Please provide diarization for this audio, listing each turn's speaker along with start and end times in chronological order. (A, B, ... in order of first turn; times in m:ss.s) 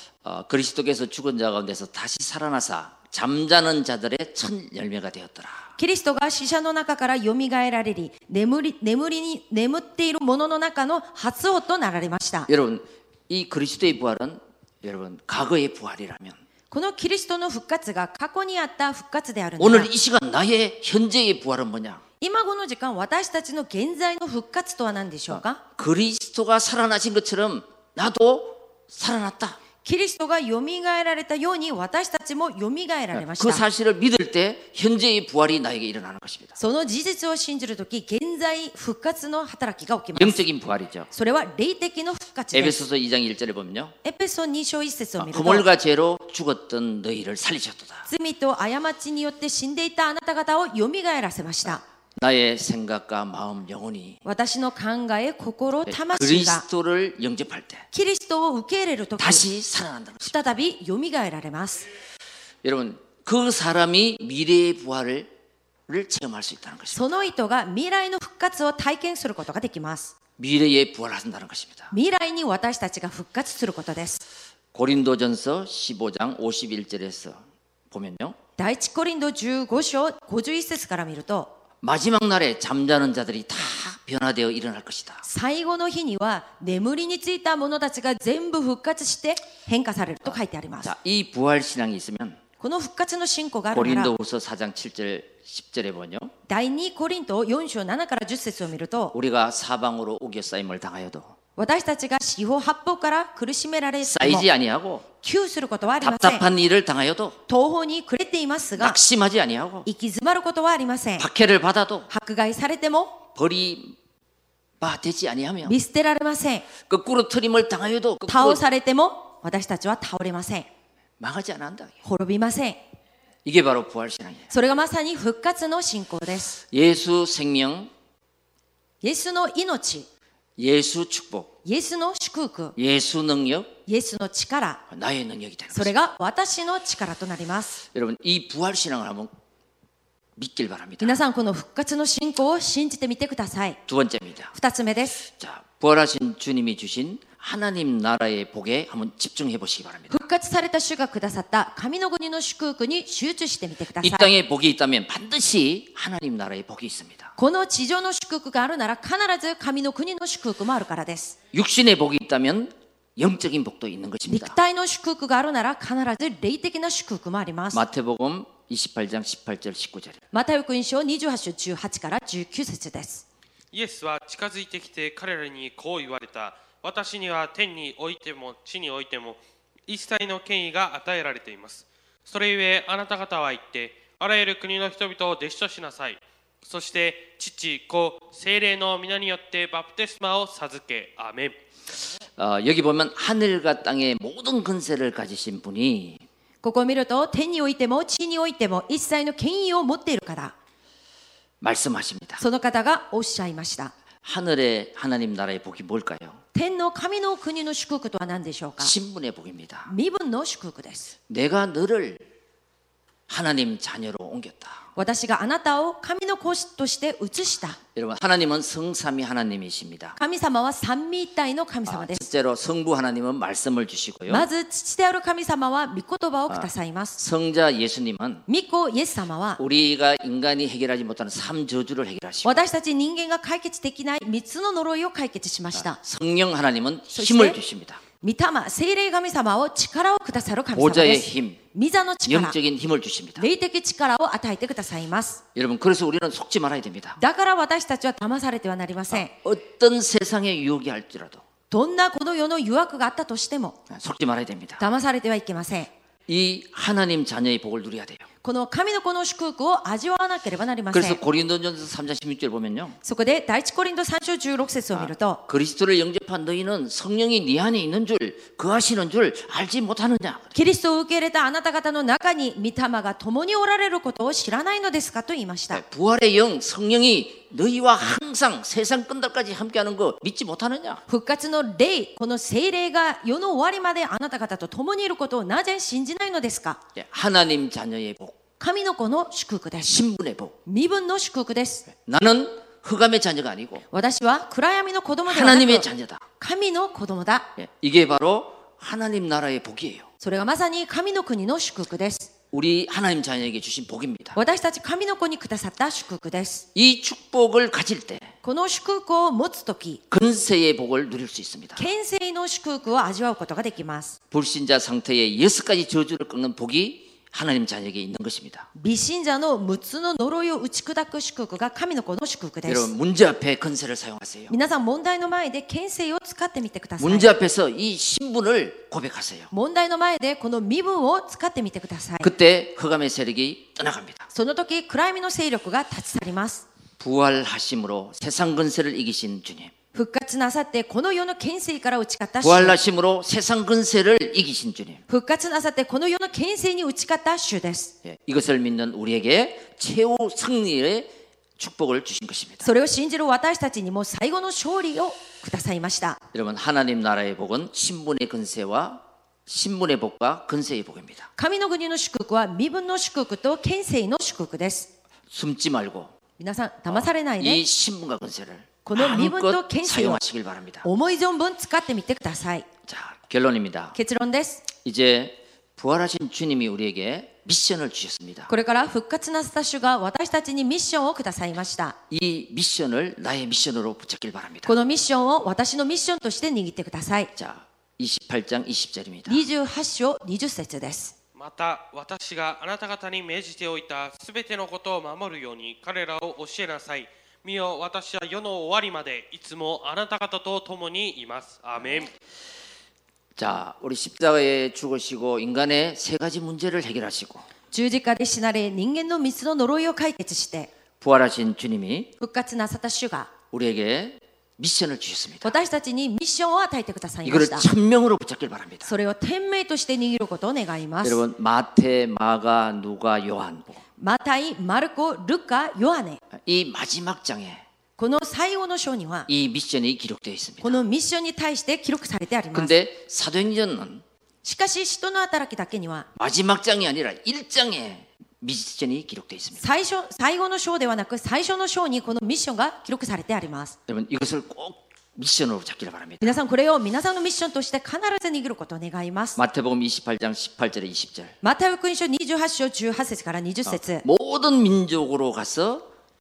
0:00.2-0:05.7 A
0:05.8-0:12.5 B
0:12.5-0:16.4 A
0:16.7-0:19.9 B
0:19.6-0:22.0 A
0:22.2-0:25.6 B
0:25.3-0:29.6 A
0:29.8-0:33.6 B
0:33.1-0:36.6 A
0:36.6-0:40.4 B
0:40.1-0:41.1 A
0:41.1-0:42.8 B
0:42.5-0:43.9 A
0:44.0-0:45.6 B
0:45.2-0:48.1 A
0:48.1-0:51.8 B
0:52.2-0:54.2 A
0:54.2-0:56.6 B
0:55.8-0:57.9 A
0:57.9-0:59.4 B
0:59.2-1:00.4 A
1:00.2-1:01.8 B
1:02.6-1:05.3 A
1:05.9-1:07.1 A
1:06.9-1:10.1 B
1:10.4-1:11.9 A
1:11.9-1:14.2 B
1:14.7-1:18.4 A
1:18.6-1:21.6 B
1:21.8-1:25.2 A
1:25.2-1:30.9 B
1:30.3-1:32.4 A
1:32.6-1:34.1 B
1:33.7-1:36.3 A
1:36.5-1:39.1 B
1:39.1-1:41.3 A
1:41.6-1:44.5 B
1:44.0-1:45.0 A
1:45.2-1:46.4 B
1:46.0-1:47.4 A
1:47.5-1:49.0 B
1:48.8-1:49.9 A
1:49.8-1:51.3 B
1:51.2-1:52.1 A
1:52.1-1:53.2 B
1:53.3-1:54.0 A
1:54.8-1:55.8 A
1:55.6-1:56.7 B
1:56.8-1:58.6 A
1:58.3-2:00.7 B
2:01.2-2:02.0 A
2:02.0-2:02.8 B
2:03.4-2:04.5 A
2:04.5-2:06.6 B
2:06.7-2:07.9 A
2:09.0-2:10.1 B
2:10.6-2:11.5 A
2:11.6-2:12.8 B
2:12.8-2:13.7 A
2:13.9-2:14.8 B
2:14.9-2:15.9 A
2:15.7-2:17.8 B
2:17.9-2:19.3 A
2:20.4-2:21.2 A
2:21.0-2:23.8 B
2:23.9-2:24.5 A
2:24.5-2:25.2 B
2:25.2-2:30.2 A
2:30.1-2:34.3 B
2:34.0-2:37.3 A
2:37.4-2:41.4 B
2:41.5-2:44.6 A
2:44.3-2:47.8 B
2:47.7-2:50.2 A
2:50.3-2:53.2 B
2:53.7-3:11.6 C
3:12.4-3:16.2 A
3:16.6-3:20.5 B
3:21.6-3:22.4 A
3:22.4-3:23.9 B
3:24.2-3:26.4 A
3:26.5-3:28.9 B
3:28.8-3:29.9 A
3:29.9-3:31.1 B
3:31.3-3:32.2 A
3:33.3-3:34.9 A
3:35.0-3:37.8 B
3:37.9-3:40.2 A
3:40.2-3:42.3 B
3:41.8-3:44.5 A
3:44.3-3:47.2 B
3:46.5-3:48.4 A
3:48.5-3:49.6 B
3:49.6-3:52.6 A
3:52.4-3:56.0 B
3:55.7-3:58.0 A
3:57.1-3:57.6 B
3:58.2-4:02.6 B
4:00.7-4:01.6 A
4:02.2-4:03.5 A
4:03.4-4:05.4 B
4:05.5-4:07.2 A
4:07.2-4:09.3 B
4:09.1-4:11.4 A
4:11.7-4:13.8 B
4:13.9-4:14.8 A
4:14.8-4:15.9 B
4:16.3-4:18.2 A
4:18.4-4:21.2 B
4:20.9-4:23.0 A
4:23.0-4:25.4 B
4:24.9-4:30.5 A
4:30.5-4:35.8 B
4:35.7-4:41.0 A
4:41.1-4:46.8 B
4:46.9-4:48.4 A
4:48.6-4:50.0 B
4:49.8-4:50.6 A
4:50.6-4:51.9 B
4:51.9-4:53.8 A
4:53.9-4:55.9 B
4:55.3-4:56.2 A
4:56.4-4:57.5 B
4:57.6-5:00.1 A
5:00.2-5:02.3 B
5:02.5-5:04.4 A
5:04.3-5:06.6 B
5:06.7-5:08.3 A
5:08.4-5:10.0 B
5:10.1-5:11.9 A
5:11.8-5:14.2 B
5:14.3-5:18.7 A
5:18.7-5:22.9 B
5:22.6-5:24.5 A
5:24.5-5:27.3 B
5:27.0-5:29.5 A
5:29.5-5:32.3 B
5:32.2-5:34.3 A
5:34.3-5:36.6 B
5:37.0-5:39.7 A
5:39.9-5:42.8 B
5:42.4-5:45.0 A
5:45.1-5:47.9 B
5:48.0-5:52.7 A
5:52.6-5:56.2 B
5:56.3-6:01.3 A
6:01.4-6:04.9 B
6:05.3-6:06.1 A
6:06.4-6:07.6 B
6:06.9-6:10.9 A
6:08.8-6:10.2 B
6:10.8-6:12.7 B
6:12.9-6:14.0 A
6:13.9-6:14.7 B
6:14.7-6:18.5 A
6:18.5-6:22.0 B
6:22.1-6:24.8 A
6:24.6-6:27.3 B
6:27.4-6:29.4 A
6:29.3-6:31.1 B
6:31.4-6:42.1 C
6:43.4-6:47.5 A
6:47.7-6:50.7 B
6:51.0-6:52.1 A
6:52.2-6:53.3 B
6:53.5-6:55.6 A
6:55.4-6:57.7 B
6:57.2-6:58.9 A
6:58.8-7:01.2 B
7:01.0-7:03.8 A
7:04.0-7:06.2 B
7:06.4-7:07.6 A
7:08.0-7:09.3 B
7:09.3-7:10.8 A
7:10.6-7:12.7 B
7:12.5-7:14.0 A
7:14.4-7:16.1 B
7:16.2-7:19.6 A
7:19.6-7:23.8 B
7:23.9-7:26.4 A
7:26.2-7:29.4 B
7:29.4-7:31.4 A
7:31.4-7:34.0 B
7:33.7-7:35.9 A